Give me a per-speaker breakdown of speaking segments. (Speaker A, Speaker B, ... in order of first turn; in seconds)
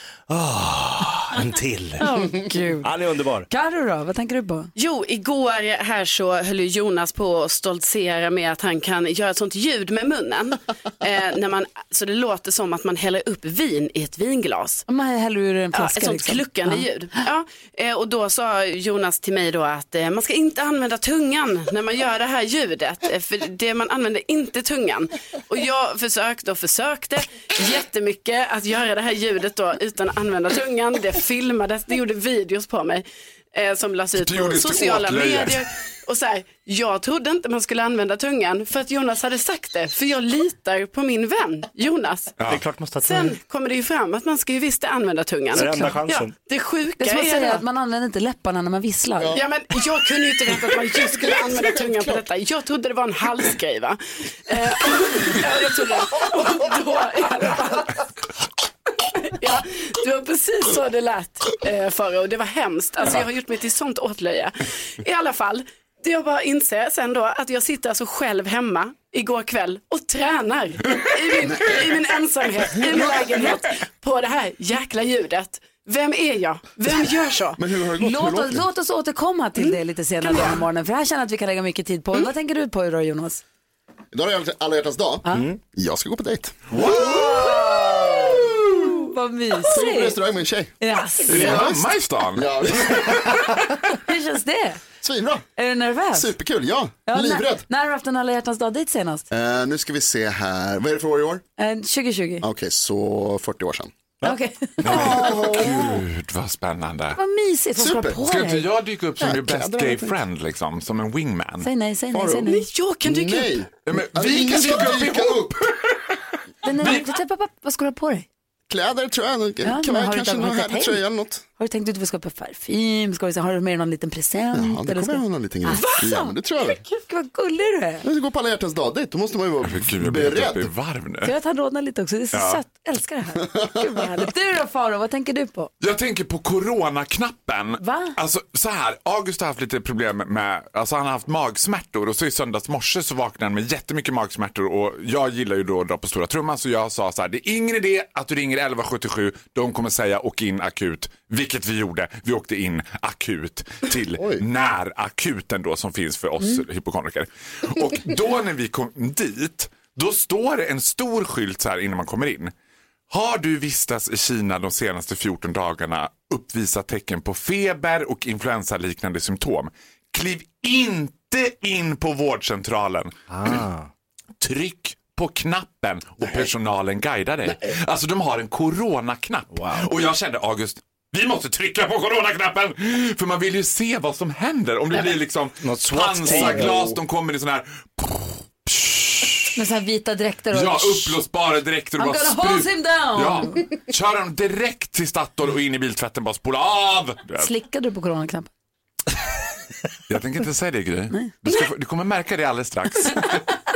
Speaker A: 0.3-2.1, 2.8-3.5, 42.4-43.4, 45.5-46.3, 173.3-173.9, 179.5-179.9, 184.9-187.0
Speaker B: 2.0-2.9, 3.5-4.7, 14.9-16.8, 47.0-49.4, 78.0-83.4, 86.8-90.2, 90.8-91.6, 94.0-94.8, 95.6-96.3, 97.0-99.2, 101.6-102.5, 104.2-105.7, 107.2-108.7, 111.6-112.7, 116.6-118.3, 119.6-121.0, 121.6-128.1, 131.2-135.7, 137.8-138.2, 189.6-191.2, 192.0-193.6, 197.4-198.5
Speaker C: 4.8-14.8, 15.7-42.3, 43.0-47.6, 49.3-58.0, 59.2-77.6, 112.4-113.6
Speaker D: 34.1-35.6, 42.4-42.7, 86.7-87.5, 91.3-93.5, 104.8-107.2, 108.2-111.7, 113.8-116.2, 116.8-117.1, 129.6-131.3, 132.3-132.6, 135.8-162.5, 163.1-173.6, 174.4-189.5, 190.5-197.5, 200.1-203.4
Speaker E: 50.9-51.6, 71.5-71.8, 77.6-78.7, 84.1-86.8, 87.8-88.9, 89.7-90.7, 91.3-93.6, 95.0-95.4, 96.1-97.6, 99.3-101.4, 102.4-103.9, 104.8-106.0, 107.8-108.2, 109.2-110.1, 112.1-112.5, 113.0-115.6, 118.7-121.4, 124.5-126.8, 128.0-130.7, 133.5-133.8, 154.2-154.4